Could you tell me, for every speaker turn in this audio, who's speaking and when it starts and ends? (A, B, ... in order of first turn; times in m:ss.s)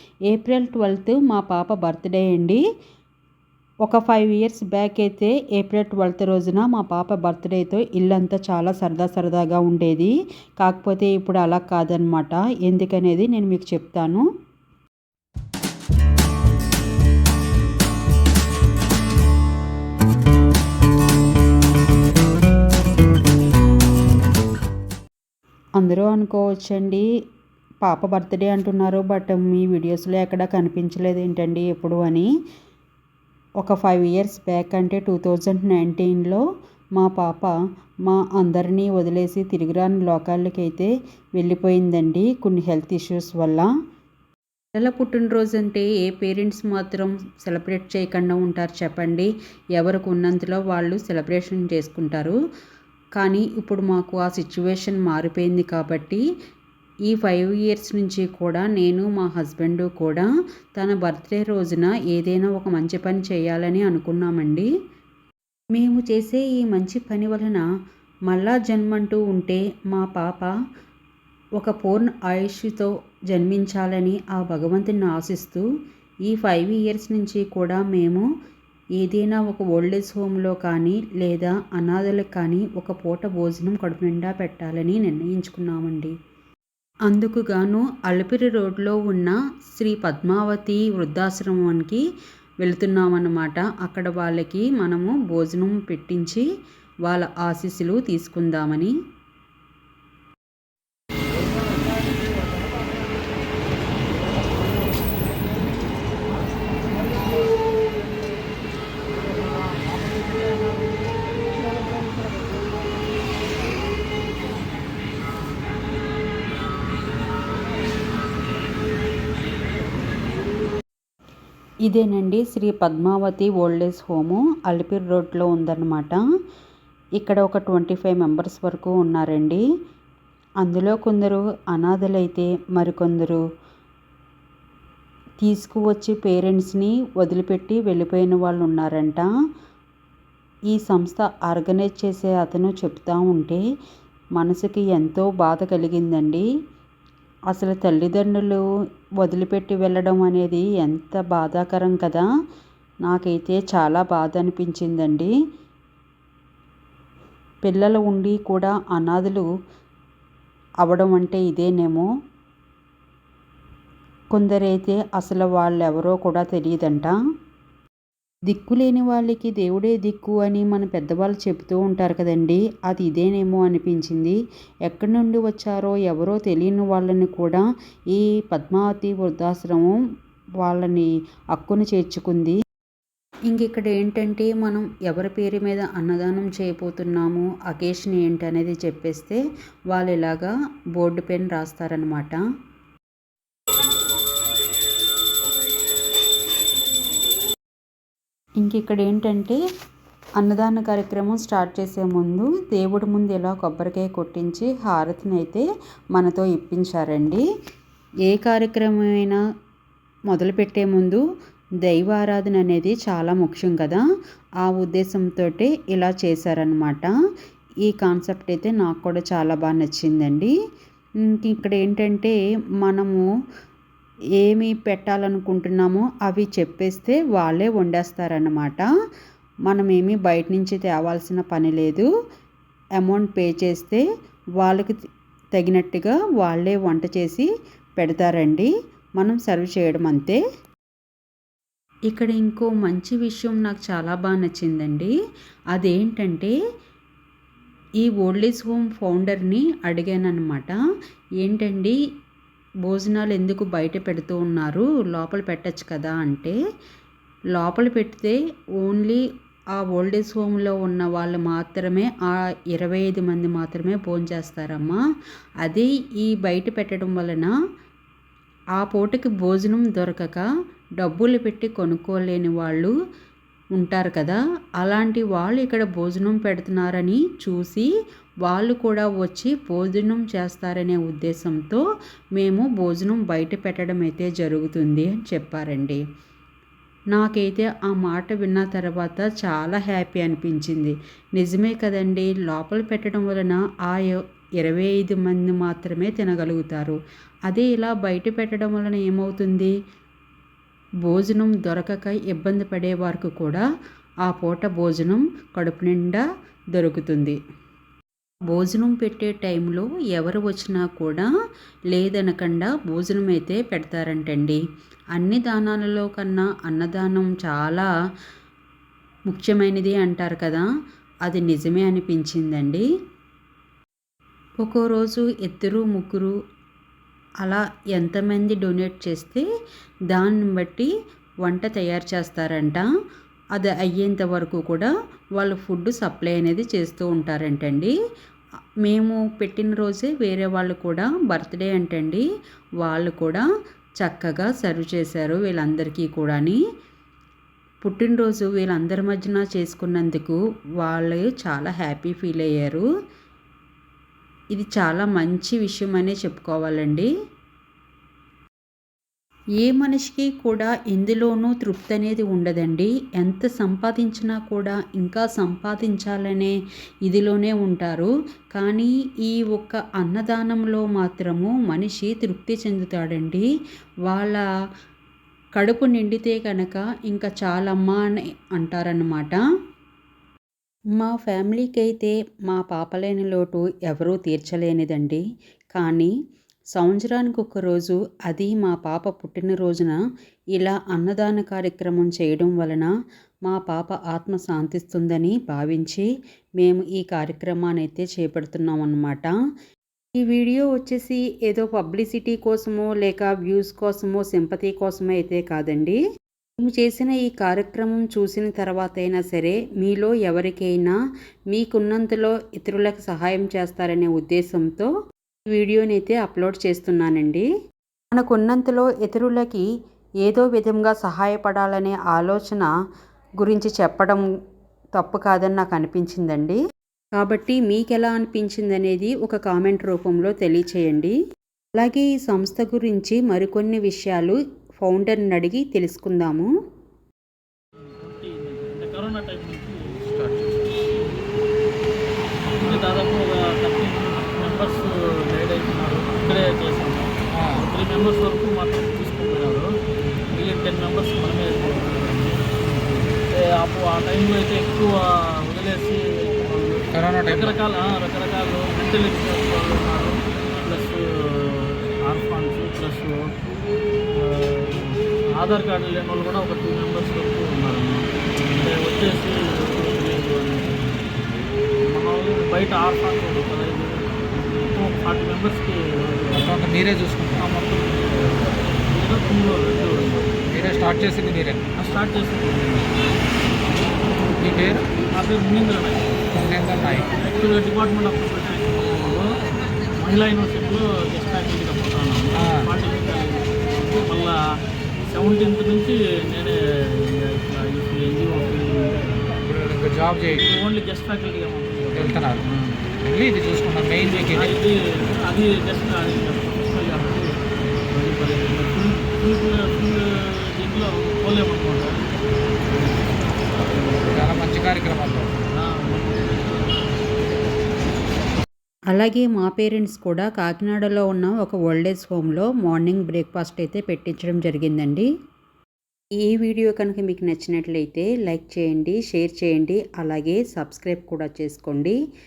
0:00.3-0:02.6 A
0:03.8-0:14.3 A
0:25.8-0:27.0 A
0:27.8-0:32.3 A
0:33.6-0:36.4 A
0:37.0-0:37.5 A
0:38.0-0:43.7 A
0:44.8-0:52.4 A
0:53.2-0:56.2 A
0:57.1-1:04.7 A
1:05.7-1:07.6 A
1:08.3-1:10.5 A
1:11.6-1:15.6 A
1:16.3-1:18.2 A
1:19.0-1:26.1 A
1:27.1-1:32.0 A
1:32.6-1:36.4 A
1:37.1-1:38.9 A
2:01.9-2:06.2 A
2:07.2-2:09.6 A
2:10.6-2:13.4 A
2:15.4-2:19.3 A
2:20.7-2:23.6 A
2:24.4-2:26.4 A
2:27.5-2:28.6 A
2:29.2-2:32.3 A
2:33.0-2:35.3 A
2:37.6-2:39.5 A
2:40.8-2:42.1 A
2:44.3-2:47.1 A
2:48.5-3:00.0 A
3:00.6-3:02.6 A
3:03.5-3:09.4 A
3:09.9-3:12.4 A
3:18.6-3:19.6 A
3:20.4-3:27.4 A
3:28.3-3:29.4 A
3:30.3-3:31.2 A
3:31.8-3:34.0 A
3:34.6-3:37.1 A
3:37.8-3:40.5 A
3:41.2-3:43.3 A
3:44.4-3:48.9 A
3:49.7-3:52.1 A
3:53.0-3:54.0 A
3:54.6-3:54.9 A
3:55.6-3:57.5 A
3:58.0-4:00.4 A
4:02.1-4:05.1 A
4:05.7-4:06.5 A
4:08.0-4:10.8 A
4:11.4-4:12.0 A
4:12.8-4:16.6 A
4:17.5-4:19.2 A
4:19.8-4:25.0 A
4:25.6-4:27.5 A
4:28.8-4:30.4 A
4:31.0-4:32.9 A
4:33.8-4:37.9 A
4:38.4-4:41.8 A
4:42.4-4:46.0 A
4:47.1-4:57.0 A
4:57.5-4:59.7 A
5:01.0-5:03.6 A
5:04.3-5:06.2 A
5:06.8-5:07.4 A
5:08.5-5:11.3 A
5:11.9-5:14.6 A
5:15.2-5:17.9 A
5:19.3-5:20.6 A
5:21.2-5:22.8 A
5:24.6-5:26.3 A
5:27.4-5:29.4 A
5:30.1-5:30.9 A
5:31.4-5:32.8 A
5:33.6-5:37.9 A
5:38.8-5:42.2 A
5:42.8-5:43.4 A
5:44.0-5:46.6 A
5:47.8-5:52.8 A
5:54.5-5:57.1 A
5:59.6-6:06.5 A
6:07.0-6:13.5 A
6:14.1-6:14.4 A
6:15.6-6:19.4 A
6:21.0-6:25.2 A
6:25.7-6:26.1 A
6:26.7-6:30.0 A
6:30.6-6:32.9 A
6:33.5-6:36.0 A
6:36.6-6:39.3 A
6:40.2-6:46.0 A
6:46.6-6:50.9 A
6:51.5-6:54.9 A
6:55.5-6:57.5 A
6:58.1-6:59.6 A
7:00.2-7:02.7 A
7:03.4-7:04.2 A
7:05.0-7:06.6 A
7:07.2-7:11.2 A
7:11.7-7:16.5 A
7:17.9-7:21.2 B
7:22.5-7:29.7 B
7:27.3-7:27.6 C
7:30.3-7:43.2 B
7:36.9-7:37.6 C
7:44.1-7:51.0 B
7:51.8-7:56.6 B
7:56.3-7:57.6 C
7:57.4-8:00.4 B
8:00.5-8:01.7 C
8:01.8-8:04.3 B
8:04.4-8:04.8 C
8:05.0-8:09.3 B
8:06.3-8:07.1 C
8:10.0-8:14.4 B
8:12.4-8:12.7 C
8:15.1-8:19.3 B
8:19.4-8:20.4 C
8:20.3-8:22.9 B
8:21.9-8:22.4 C
8:23.0-8:24.5 C
8:24.3-8:27.3 B
8:27.9-8:31.9 B
8:32.7-8:34.4 B
8:34.1-8:35.4 C
8:35.5-8:37.6 B
8:38.9-8:45.1 A
8:46.2-8:52.0 A